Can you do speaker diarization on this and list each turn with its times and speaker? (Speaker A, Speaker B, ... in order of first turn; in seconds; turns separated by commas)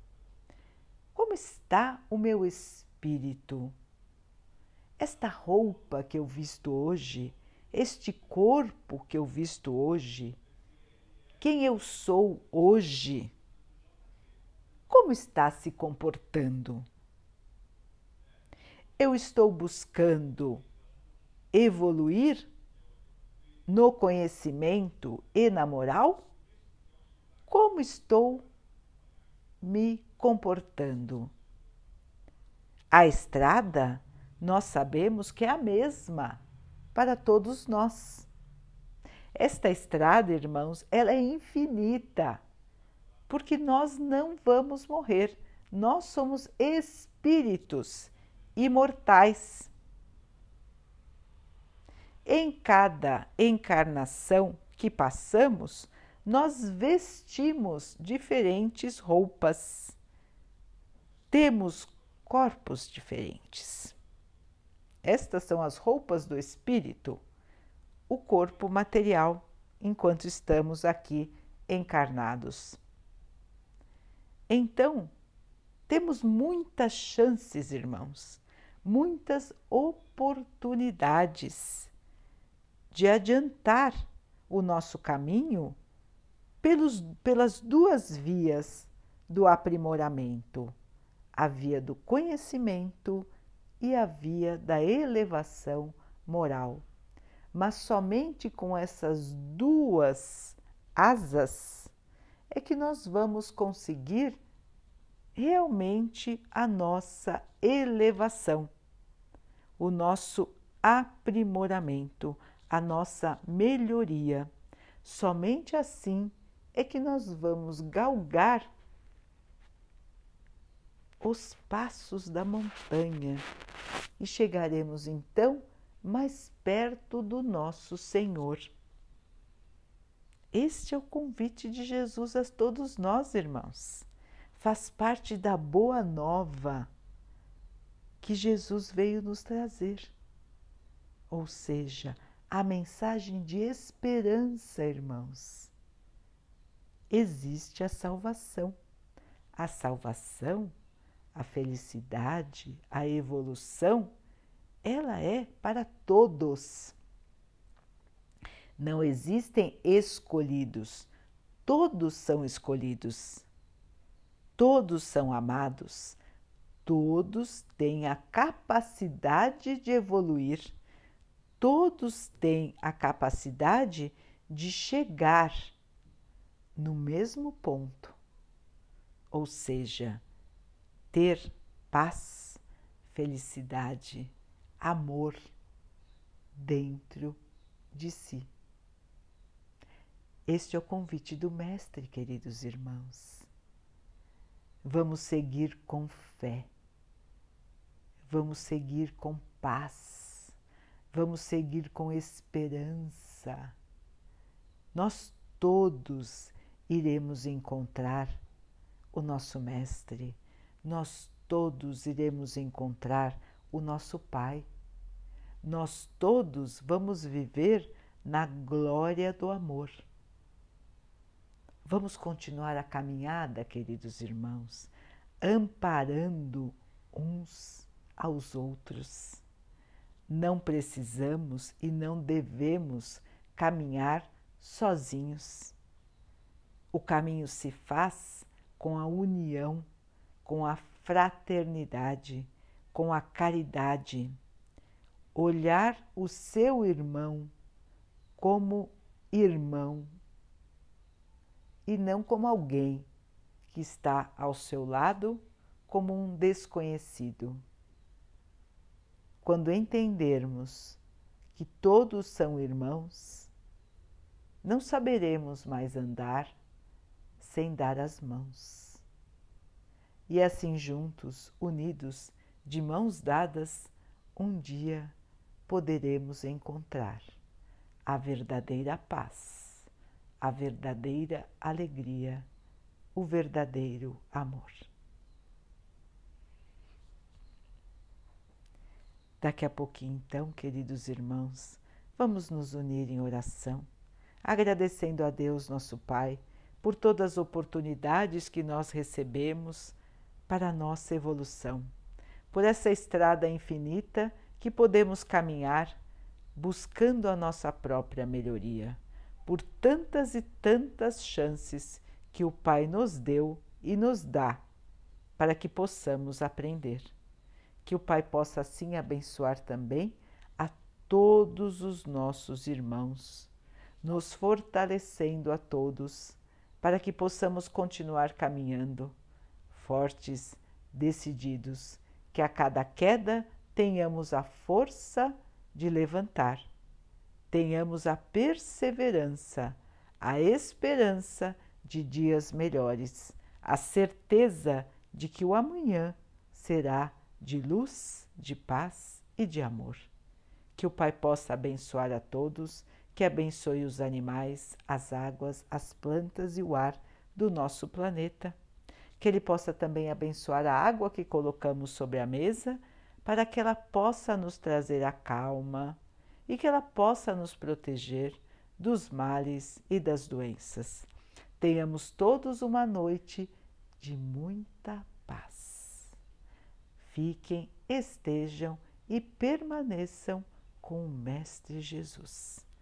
Speaker A: 1.1-3.7, Speaker A: 5.0-10.4, Speaker A: 11.4-13.3, Speaker A: 14.9-16.9, Speaker A: 19.0-20.6, Speaker A: 21.5-22.5, Speaker A: 23.7-26.2, Speaker A: 27.5-28.4, Speaker A: 29.6-31.3, Speaker A: 32.9-36.4, Speaker A: 36.9-38.3, Speaker A: 39.3-42.4, Speaker A: 43.3-49.7, Speaker A: 52.2-60.0, Speaker A: 61.3-63.9, Speaker A: 65.0-67.2, Speaker A: 68.1-72.8, Speaker A: 74.5-75.1, Speaker A: 75.9-81.9, Speaker A: 82.9-85.8, Speaker A: 86.6-90.7, Speaker A: 91.3-96.8, Speaker A: 97.5-101.9, Speaker A: 102.5-104.4, Speaker A: 105.3-108.7, Speaker A: 109.8-114.5, Speaker A: 115.0-118.7, Speaker A: 121.2-123.4, Speaker A: 124.2-128.7, Speaker A: 130.5-136.9, Speaker A: 138.2-140.1, Speaker A: 141.3-145.7, Speaker A: 147.1-148.8, Speaker A: 149.5-150.7, Speaker A: 151.3-154.1, Speaker A: 154.8-156.9, Speaker A: 158.8-161.1, Speaker A: 161.7-163.4, Speaker A: 164.6-166.2, Speaker A: 166.8-170.8, Speaker A: 171.6-175.7, Speaker A: 176.8-178.2, Speaker A: 179.3-180.2, Speaker A: 181.1-185.5, Speaker A: 186.5-187.4, Speaker A: 187.9-188.5, Speaker A: 190.5-193.5, Speaker A: 194.8-196.7, Speaker A: 198.3-200.5, Speaker A: 201.1-203.7, Speaker A: 204.9-208.4, Speaker A: 209.1-214.7, Speaker A: 215.6-220.0, Speaker A: 221.8-229.4, Speaker A: 230.3-235.7, Speaker A: 236.9-239.8, Speaker A: 240.4-244.4, Speaker A: 245.3-247.5, Speaker A: 248.4-250.1, Speaker A: 251.8-253.1, Speaker A: 253.7-257.6, Speaker A: 259.4-261.0, Speaker A: 261.5-263.5, Speaker A: 264.6-266.6, Speaker A: 267.4-269.0, Speaker A: 270.3-275.1, Speaker A: 275.7-277.4, Speaker A: 278.1-279.9, Speaker A: 280.4-282.4, Speaker A: 283.1-284.9, Speaker A: 289.4-293.9, Speaker A: 294.4-299.9, Speaker A: 300.5-301.9, Speaker A: 302.5-306.0, Speaker A: 306.5-314.6, Speaker A: 315.4-317.1, Speaker A: 317.8-323.5, Speaker A: 324.0-329.1, Speaker A: 329.7-336.7, Speaker A: 337.5-350.1, Speaker A: 350.8-358.5, Speaker A: 359.2-371.1, Speaker A: 371.6-376.1, Speaker A: 377.0-382.6